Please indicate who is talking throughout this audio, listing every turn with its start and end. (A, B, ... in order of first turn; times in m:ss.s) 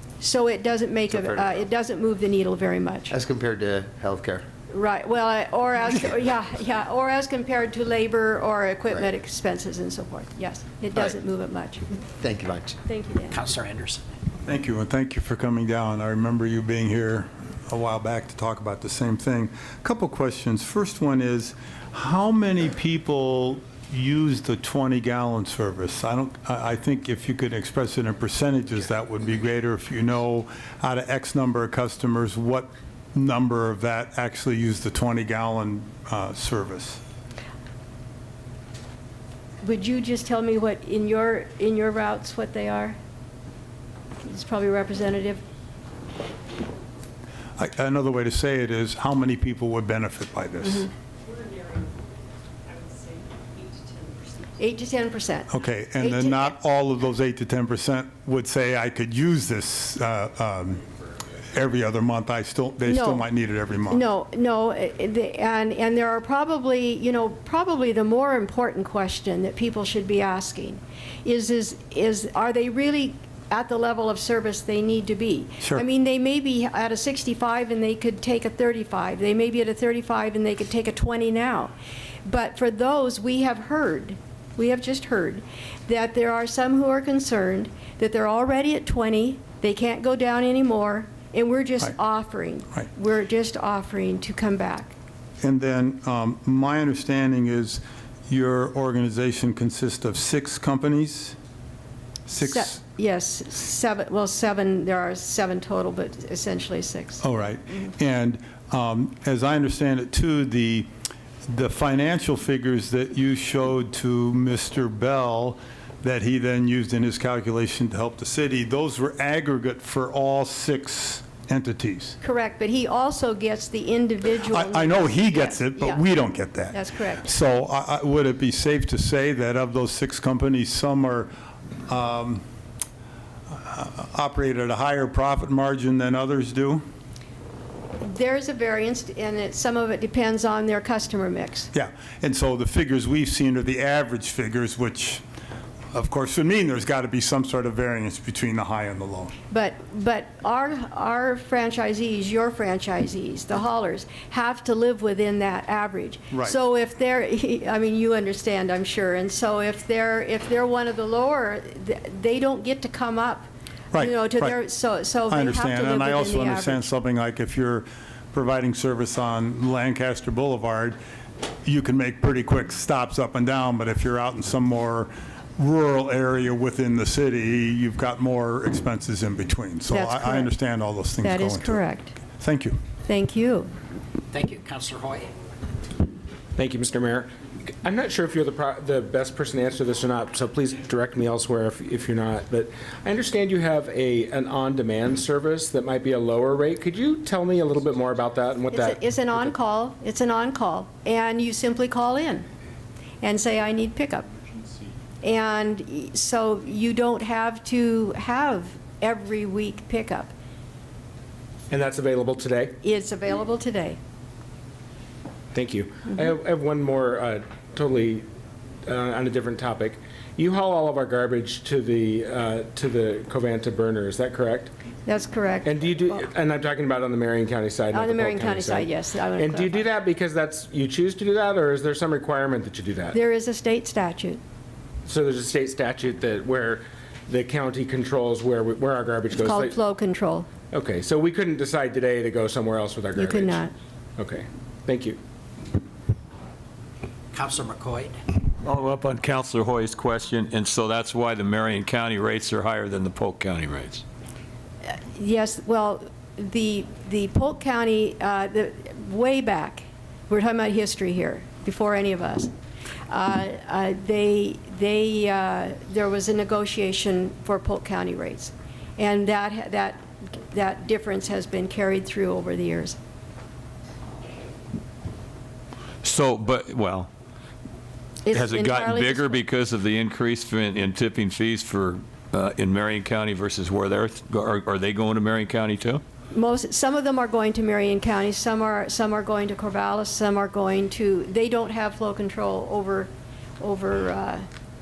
0:00.2-0:03.1 A
0:01.1-0:01.5 B
0:03.1-0:04.4 B
0:04.7-0:11.9 A
0:12.2-0:12.8 B
0:12.8-0:13.4 A
0:13.3-0:14.0 C
0:14.4-0:37.0 D
0:39.6-0:43.0 A
0:44.2-0:45.4 A
0:47.6-0:50.9 D
0:51.4-0:51.9 E
0:52.7-0:54.0 E
0:54.6-0:56.5 A
0:55.5-1:00.8 D
1:01.5-1:04.0 D
1:02.9-1:03.2 A
1:03.9-1:21.7 A
1:22.3-1:35.0 A
1:35.4-1:41.4 D
1:42.3-1:42.8 D
1:42.3-1:47.2 A
1:47.2-1:50.9 D
1:51.5-2:02.2 D
2:02.2-2:06.1 A
2:04.4-2:11.3 D
2:06.7-2:07.3 A
2:11.9-2:12.4 D
2:13.5-2:16.8 D
2:18.0-2:21.7 A
2:21.7-2:25.2 D
2:25.9-2:29.3 D
2:29.5-2:46.9 A
2:43.9-2:44.6 D
2:45.3-2:51.0 D
2:51.6-3:01.8 D
2:59.9-3:00.5 A
3:01.2-3:02.2 A
3:02.4-3:02.8 D
3:03.1-3:03.7 A
3:04.3-3:05.3 C
3:06.6-3:19.5 F
3:18.7-3:22.5 A
3:23.2-3:24.3 A
3:25.2-3:30.3 A
3:31.7-3:32.8 F
3:32.8-3:34.0 A
3:35.5-3:38.3 F
3:38.8-3:44.7 F
3:45.1-3:45.7 A
3:45.6-3:53.2 F
3:47.9-3:49.8 A
3:53.1-3:54.4 A
3:55.0-3:59.8 F
3:59.4-4:00.5 A
4:00.7-4:05.2 F
4:03.2-4:03.7 A
4:07.3-4:08.2 C
4:08.6-4:14.0 G
4:14.9-4:22.5 A
4:23.1-4:33.0 A
4:36.0-4:37.1 G
4:38.2-4:39.4 A
4:38.3-4:46.0 G
4:46.3-4:54.4 A